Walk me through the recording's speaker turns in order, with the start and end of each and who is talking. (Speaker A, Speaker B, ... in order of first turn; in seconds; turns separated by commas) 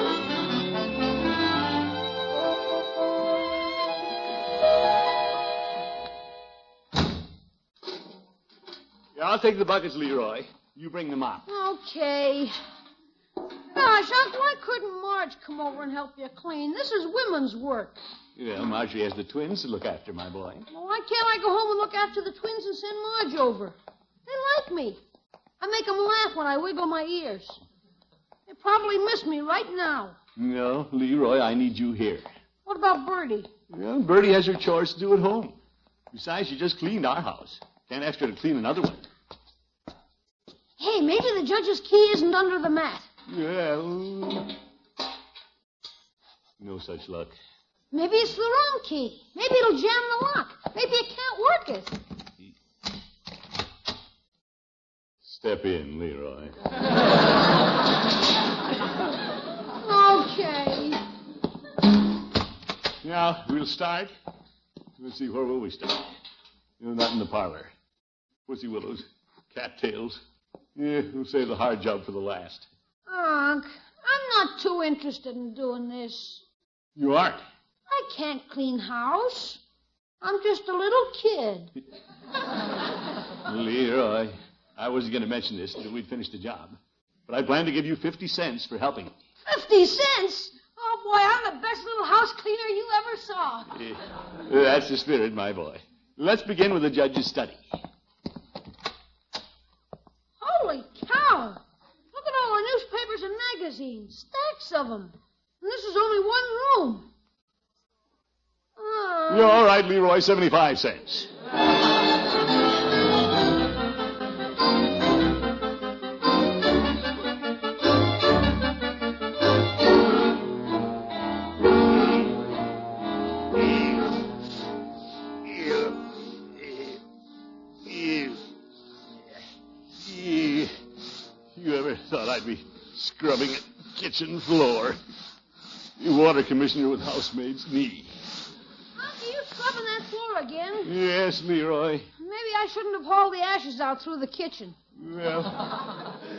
Speaker A: 9.2-11.4, Speaker B: 11.5-12.5, Speaker B: 13.7-18.0, Speaker A: 18.4-20.6, Speaker B: 20.7-25.0, Speaker B: 25.6-27.6, Speaker B: 28.5-30.1, Speaker A: 30.4-32.3, Speaker B: 32.6-33.5, Speaker A: 33.7-35.6, Speaker A: 36.1-39.1, Speaker B: 40.8-43.1, Speaker A: 43.3-44.5, Speaker A: 46.6-47.3, Speaker B: 47.9-52.0, Speaker A: 55.2-56.5, Speaker B: 59.8-61.0, Speaker A: 63.0-64.1, Speaker A: 65.0-66.1, Speaker A: 66.8-67.7, Speaker A: 68.5-70.2, Speaker A: 70.8-72.7, Speaker B: 73.1-76.4, Speaker A: 77.0-77.4, Speaker B: 77.9-79.6, Speaker B: 80.2-81.7, Speaker A: 83.4-89.2, Speaker B: 89.5-93.7, Speaker A: 93.7-97.8, Speaker B: 100.4-101.6, Speaker B: 102.1-107.1, Speaker B: 108.8-109.6, Speaker A: 109.3-111.3, Speaker A: 125.5-125.9, Speaker A: 126.6-127.0, Speaker A: 127.8-128.4, Speaker A: 129.9-130.7, Speaker A: 131.5-135.0, Speaker A: 136.0-138.1, Speaker B: 138.9-140.9, Speaker A: 140.8-142.1, Speaker B: 142.2-144.8, Speaker A: 145.0-145.7